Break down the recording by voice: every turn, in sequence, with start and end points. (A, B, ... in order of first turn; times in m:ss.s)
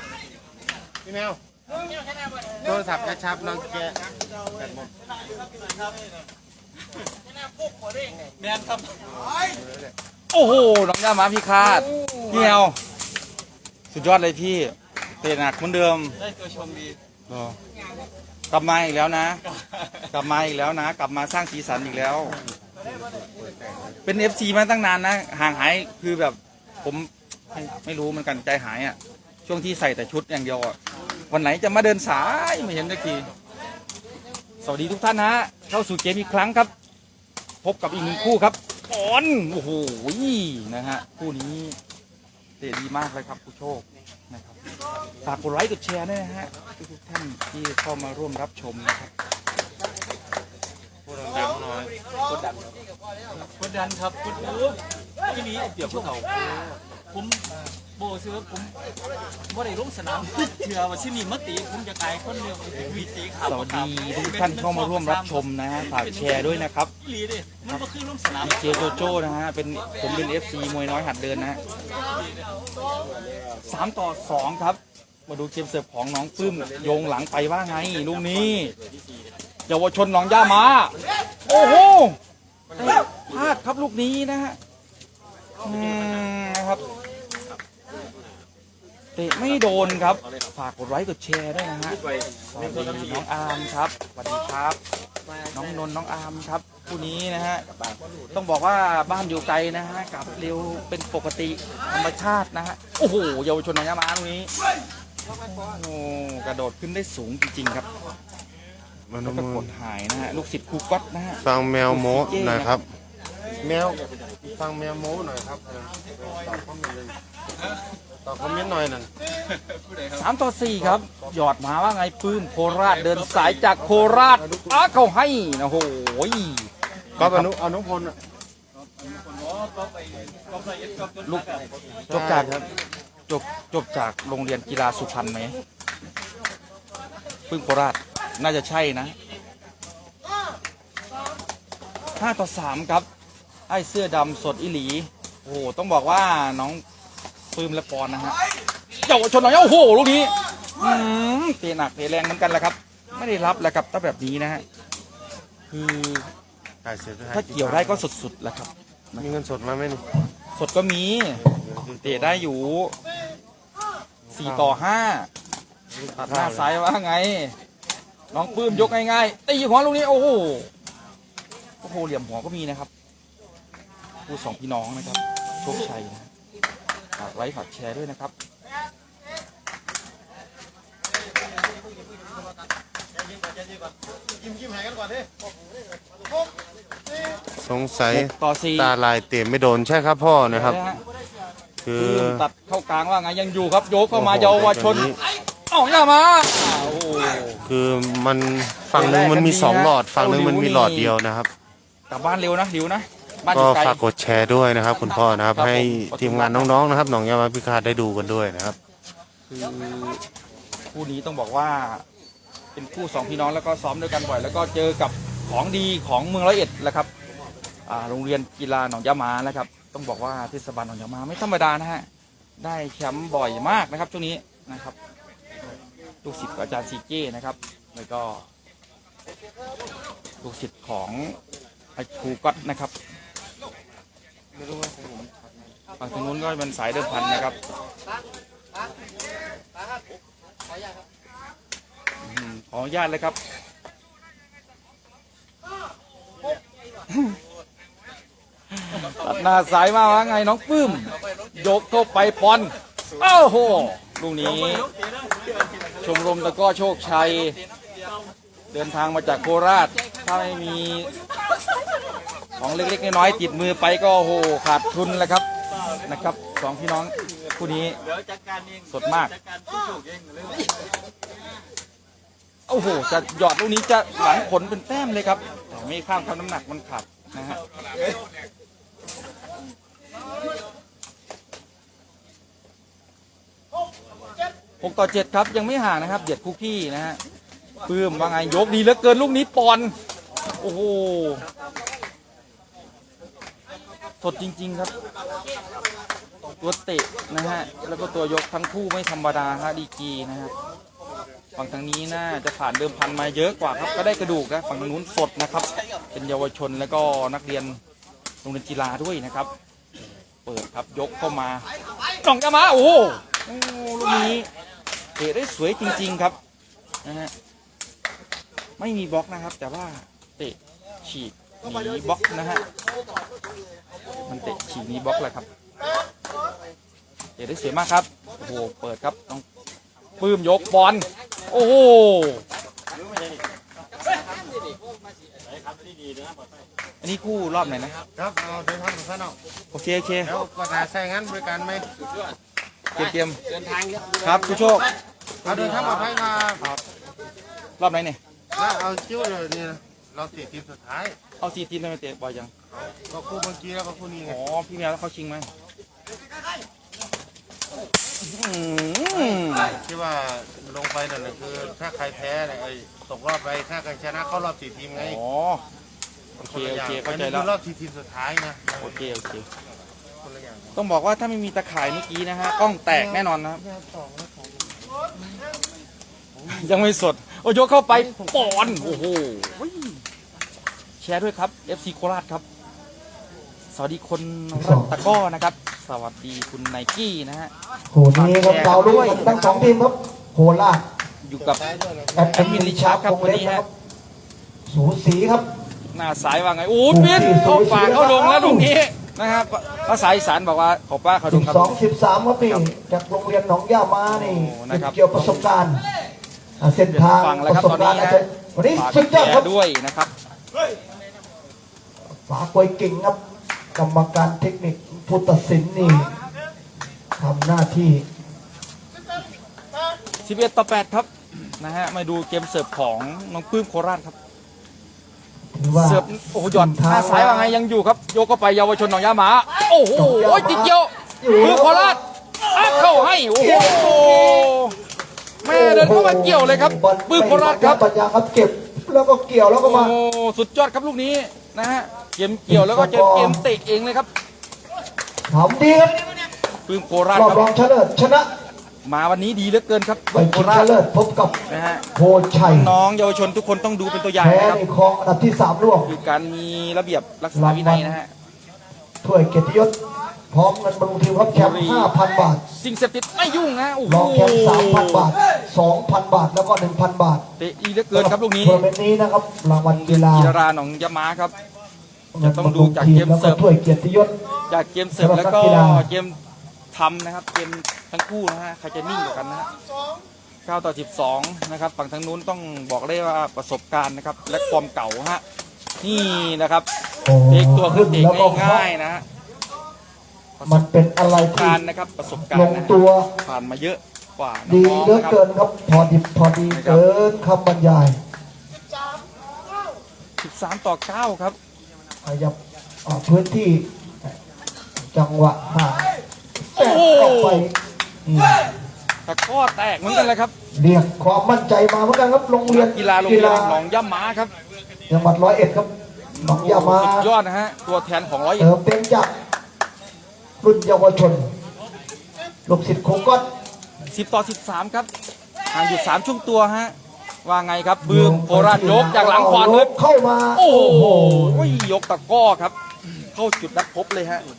0:01.0-0:01.4 A
0:02.6-0:04.9 A
0:09.3-0:09.7 A
0:10.3-0:12.8 B
0:13.9-0:16.2 B
0:18.5-0:19.4 B
0:20.1-0:22.4 B
0:23.2-0:23.7 A
0:24.0-0:30.8 B
0:31.3-0:33.3 B
0:34.6-0:36.7 B
0:37.6-0:41.8 B
0:42.6-0:44.6 B
0:45.2-0:49.1 B
0:51.0-0:51.9 A
0:53.6-0:54.5 C
0:55.7-0:56.1 B
0:58.0-0:58.7 C
0:59.6-1:02.9 C
1:03.4-1:06.9 B
1:07.6-1:11.6 B
1:13.6-1:18.7 B
1:19.7-1:20.9 B
1:21.4-1:22.2 B
1:22.8-1:24.6 B
1:25.6-1:26.8 B
1:29.2-1:32.0 B
1:32.5-1:34.8 B
1:35.5-1:37.6 B
1:38.3-1:44.5 B
1:45.4-1:47.9 B
1:49.1-1:49.7 A
1:49.2-1:52.8 B
1:51.4-1:52.9 A
1:53.6-1:57.1 A
1:58.2-1:59.1 A
2:00.1-2:07.5 B
2:04.1-2:04.8 A
2:07.2-2:08.2 A
2:11.2-2:11.5 B
2:12.1-2:12.6 A
2:12.1-2:12.7 B
2:13.3-2:15.6 B
2:17.5-2:19.1 B
2:22.2-2:23.1 B
2:23.7-2:26.8 B
2:27.5-2:28.3 B
2:29.0-2:34.6 B
2:35.7-2:36.3 B
2:36.8-2:38.0 A
2:37.3-2:39.3 B
2:39.2-2:40.0 A
2:40.5-2:42.9 B
2:41.4-2:42.4 A
2:44.2-2:44.8 A
2:44.4-2:45.3 B
2:45.9-2:46.7 A
2:46.2-2:47.5 B
2:48.3-2:50.7 B
2:51.8-2:52.9 B
2:54.3-2:56.3 B
2:57.2-2:58.3 B
3:07.6-3:10.8 A
3:08.1-3:08.9 B
3:10.5-3:11.0 B
3:11.8-3:12.4 A
3:12.0-3:15.1 B
3:14.1-3:15.2 A
3:15.7-3:17.6 B
3:17.6-3:21.5 A
3:18.9-3:21.1 B
3:22.1-3:24.0 B
3:23.5-3:28.8 A
3:25.5-3:26.7 B
3:29.5-3:30.2 B
3:30.9-3:32.0 B
3:32.7-3:37.1 B
3:37.9-3:42.1 B
3:42.6-3:44.9 B
3:46.2-3:48.4 B
3:50.4-3:51.4 B
3:52.0-3:52.9 B
3:54.6-3:55.4 A
3:56.0-3:57.6 B
4:02.2-4:03.4 B
4:08.7-4:14.9 B
4:16.0-4:17.6 B
4:18.7-4:21.1 B
4:22.6-4:25.4 B
4:26.0-4:28.0 B
4:28.9-4:29.3 B
4:30.0-4:30.5 C
4:32.7-4:37.6 B
4:44.8-4:47.2 B
4:47.8-4:49.9 B
4:50.6-4:51.4 B
4:54.2-4:54.9 B
4:56.6-5:00.5 B
5:01.6-5:07.8 B
5:08.4-5:09.5 B
5:10.4-5:11.6 B
5:12.2-5:14.5 B
5:15.2-5:16.4 B
5:17.0-5:17.3 B
5:18.8-5:22.6 B
5:24.3-5:25.5 B
5:27.4-5:29.4 B
5:30.2-5:32.4 B
5:37.0-5:37.9 B
5:38.1-5:39.4 A
5:39.7-5:40.3 B
5:40.2-5:41.8 A
5:42.9-5:43.4 B
5:44.2-5:44.9 B
5:45.4-5:46.6 A
5:45.5-5:46.1 B
5:47.8-5:48.2 B
5:48.5-5:51.2 A
5:51.4-5:52.5 B
5:52.7-5:54.4 A
5:54.2-5:55.5 B
5:58.2-5:59.8 B
5:59.1-6:05.2 A
6:05.0-6:05.6 B
6:06.4-6:07.5 B
6:06.4-6:08.9 A
6:08.7-6:09.4 B
6:10.2-6:10.7 A
6:10.7-6:13.6 B
6:12.9-6:14.7 A
6:16.4-6:16.7 A
6:16.5-6:20.0 B
6:17.9-6:18.8 A
6:21.0-6:22.4 B
6:23.7-6:27.5 B
6:24.5-6:24.9 D
6:27.9-6:30.8 D
6:28.1-6:29.5 B
6:29.0-6:29.7 A
6:31.2-6:31.6 B
6:31.4-6:32.4 A
6:32.1-6:33.7 D
6:32.3-6:33.6 B
6:34.7-6:35.4 D
6:35.9-6:41.8 B
6:36.9-6:38.7 D
6:41.3-6:45.8 D
6:44.0-6:45.5 B
6:46.6-6:49.5 D
6:46.9-6:50.1 B
6:52.2-6:53.2 D
6:53.7-6:56.1 D
6:57.2-6:58.0 D
7:00.2-7:04.1 B
7:05.5-7:07.5 D
7:05.7-7:14.8 B
7:09.9-7:12.0 D
7:12.5-7:14.5 D
7:15.4-7:17.8 B
7:15.4-7:19.9 D
7:19.6-7:24.1 B
7:22.5-7:23.4 D
7:25.3-7:26.1 D
7:26.7-7:27.5 B
7:27.1-7:28.3 D
7:28.8-7:30.7 B
7:30.1-7:31.4 D
7:31.5-7:31.8 B
7:31.9-7:32.7 D
7:32.4-7:34.6 B
7:34.2-7:35.9 D
7:35.8-7:38.1 B
7:37.3-7:38.0 D
7:39.0-7:39.7 D
7:40.3-7:42.4 D
7:41.3-7:41.9 B
7:42.6-7:45.1 B
7:43.8-7:47.2 D
7:47.4-7:48.6 B
7:47.9-7:50.4 D
7:49.7-7:51.3 B
7:52.1-7:54.1 D
7:52.2-7:53.4 B
7:54.5-7:56.2 B
7:54.9-7:55.9 D
7:56.7-7:59.5 B
8:00.4-8:05.2 B
8:05.8-8:06.6 B
8:07.0-8:08.7 D
8:07.3-8:09.0 B
8:10.4-8:15.2 B
8:10.4-8:11.6 D
8:12.2-8:13.1 D
8:14.4-8:18.0 D
8:16.5-8:16.8 B
8:20.2-8:21.4 B
8:22.0-8:24.1 D
8:24.9-8:25.9 D
8:26.5-8:27.5 D
8:26.6-8:27.5 B
8:28.0-8:28.5 D
8:29.0-8:30.3 B
8:30.5-8:33.6 D
8:32.4-8:34.3 B
8:34.9-8:37.1 D
8:36.1-8:38.5 B
8:38.4-8:39.1 D
8:40.4-8:41.2 D
8:42.4-8:43.2 D
8:43.9-8:44.9 B
8:45.5-8:49.7 B
8:47.8-8:51.6 D
8:50.3-8:54.2 B